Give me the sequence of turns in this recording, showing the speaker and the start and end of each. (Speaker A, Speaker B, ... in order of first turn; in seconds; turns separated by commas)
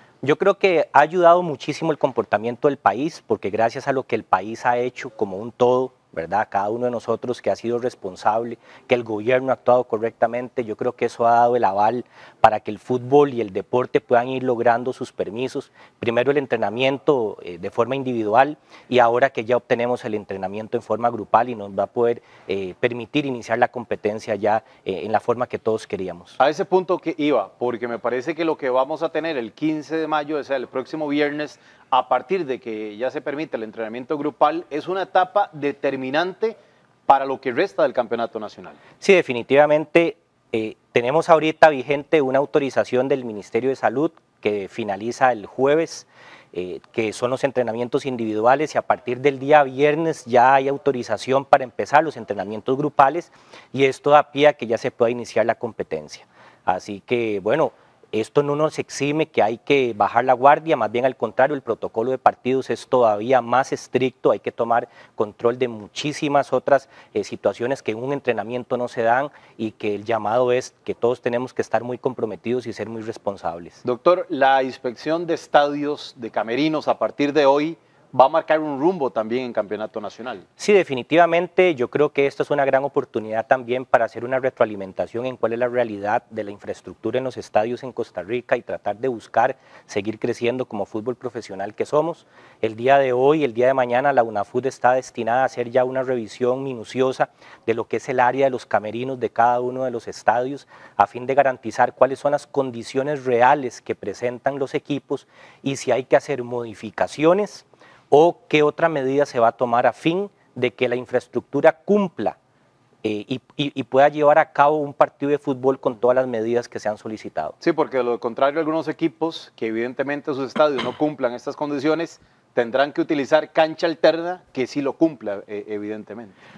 Speaker A: 0.2-26.4, Speaker B: 26.4-38.8, Speaker A: 39.0-73.8, Speaker B: 73.8-80.4, Speaker A: 80.6-112.4, Speaker A: 113.0-117.5, Speaker B: 117.6-126.3